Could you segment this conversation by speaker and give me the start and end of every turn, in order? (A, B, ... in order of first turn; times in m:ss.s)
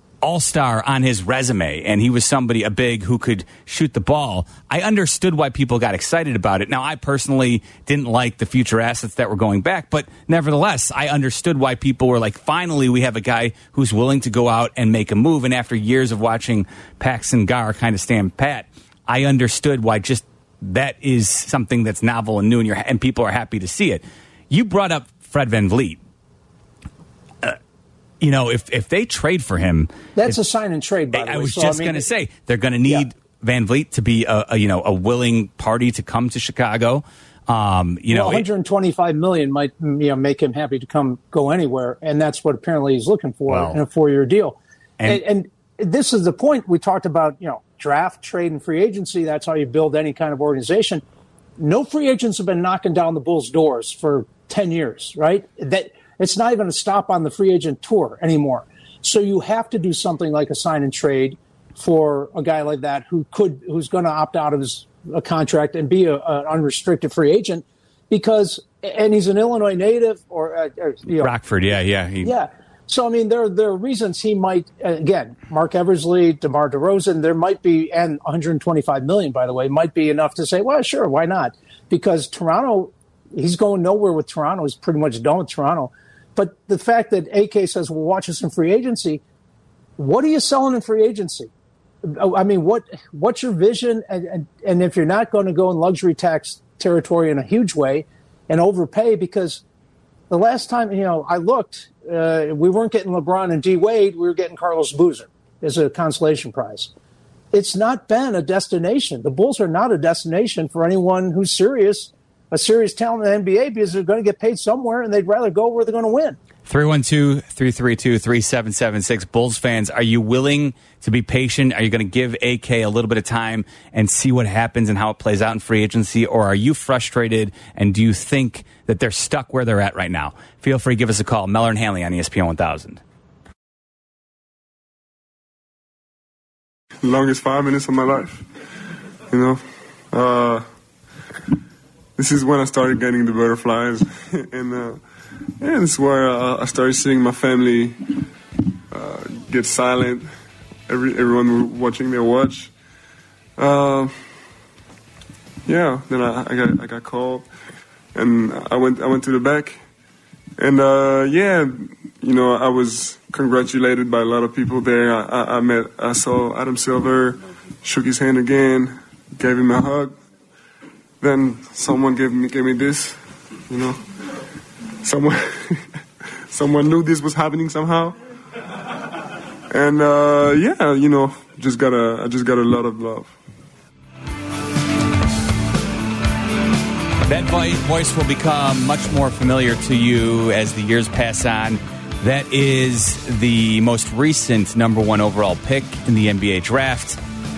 0:00.2-0:26.0 A
0:28.2-0:30.4 A
0:30.2-0:32.0 B
0:31.1-0:38.4 A
0:38.1-0:51.0 B
0:43.5-0:43.8 A
0:51.6-1:11.3 B
1:11.2-1:12.3 A
1:12.2-1:29.2 B
1:30.0-1:31.5 B
1:32.0-1:39.6 B
1:40.3-1:46.9 B
1:47.5-1:56.4 B
1:56.7-2:13.0 A
2:17.0-2:18.5 C
2:19.3-2:20.6 C
2:22.2-2:25.0 C
2:25.6-2:28.2 C
2:28.9-2:30.3 C
2:30.9-2:32.7 C
2:33.6-2:34.2 C
2:35.7-2:37.5 C
2:38.1-2:39.8 C
2:40.6-2:50.1 C
2:51.2-2:54.0 C
2:55.0-2:58.2 C
2:59.7-3:03.3 C
3:07.3-3:17.2 A